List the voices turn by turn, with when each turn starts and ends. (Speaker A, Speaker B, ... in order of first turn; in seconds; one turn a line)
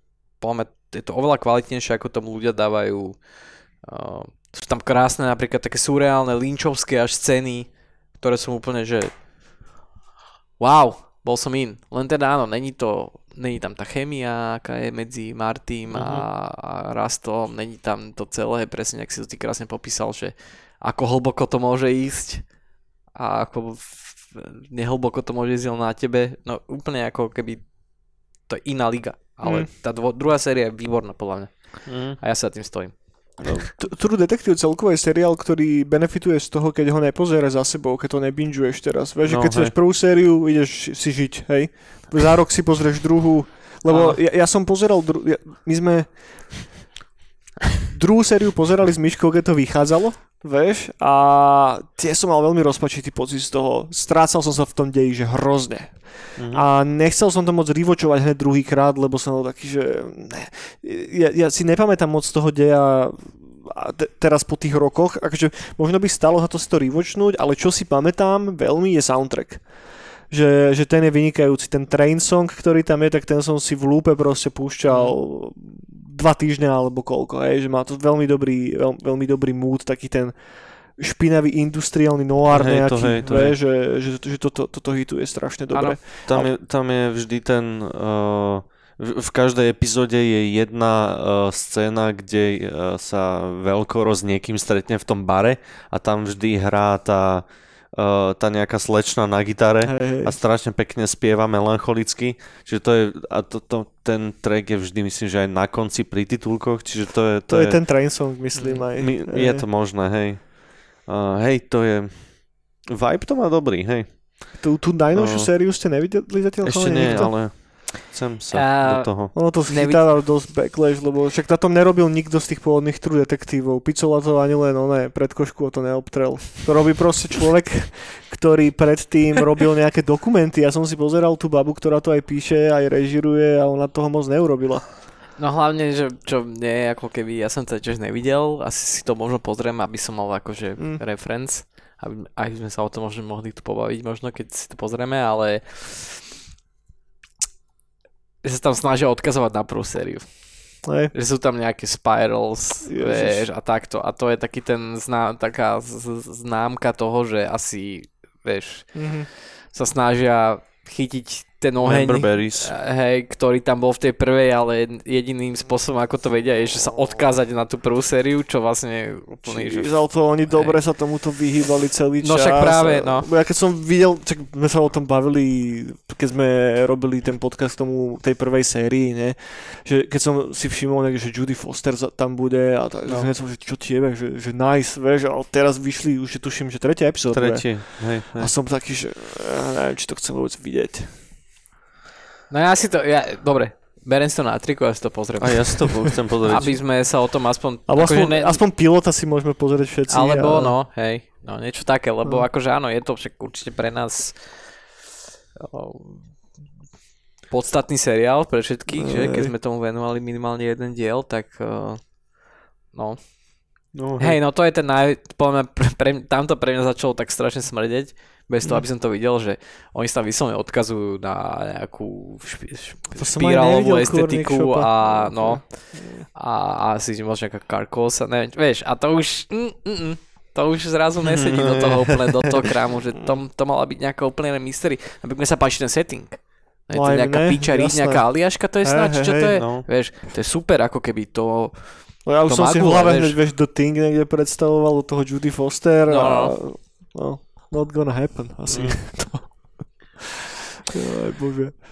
Speaker A: 0.3-9.1
Speaker A: 10.6-22.5
Speaker B: 15.9-16.3
Speaker A: 23.1-33.7
Speaker C: 29.4-29.7
Speaker B: 31.8-32.2
Speaker B: 33.4-33.7
Speaker C: 33.8-46.7
Speaker B: 39.2-39.7
Speaker A: 43.9-44.2
Speaker C: 47.9-86.5
Speaker B: 56.4-56.6
Speaker A: 74.9-75.2
Speaker B: 82.5-83.6
Speaker A: 85.7-86.0
Speaker B: 86.3-107.8
Speaker C: 99.8-100.3
Speaker C: 107.5-109.6
Speaker A: 108.5-108.9
Speaker B: 109.0-114.5
Speaker C: 114.6-117.4
Speaker B: 115.1-115.5
Speaker B: 116.6-119.3
Speaker A: 118.5-120.1
Speaker C: 119.3-135.0
Speaker A: 135.4-146.2
Speaker A: 148.4-170.8
Speaker C: 150.8-151.1
Speaker C: 152.8-153.5
Speaker C: 158.9-159.3
Speaker B: 161.8-162.7
Speaker C: 169.5-191.2
Speaker A: 172.2-173.3
Speaker A: 183.1-183.3
Speaker B: 187.3-188.5
Speaker A: 192.5-198.6
Speaker B: 195.4-196.8
Speaker C: 197.9-200.8
Speaker A: 200.1-204.8
Speaker A: 205.6-206.6
Speaker A: 207.5-212.2
Speaker C: 208.9-209.5
Speaker A: 212.9-243.4
Speaker B: 213.9-214.4
Speaker C: 223.2-226.3
Speaker B: 231.2-232.3
Speaker C: 236.9-239.5
Speaker B: 239.5-239.9
Speaker C: 242.2-250.2
Speaker A: 246.1-246.6
Speaker B: 248.7-249.0
Speaker C: 250.9-251.7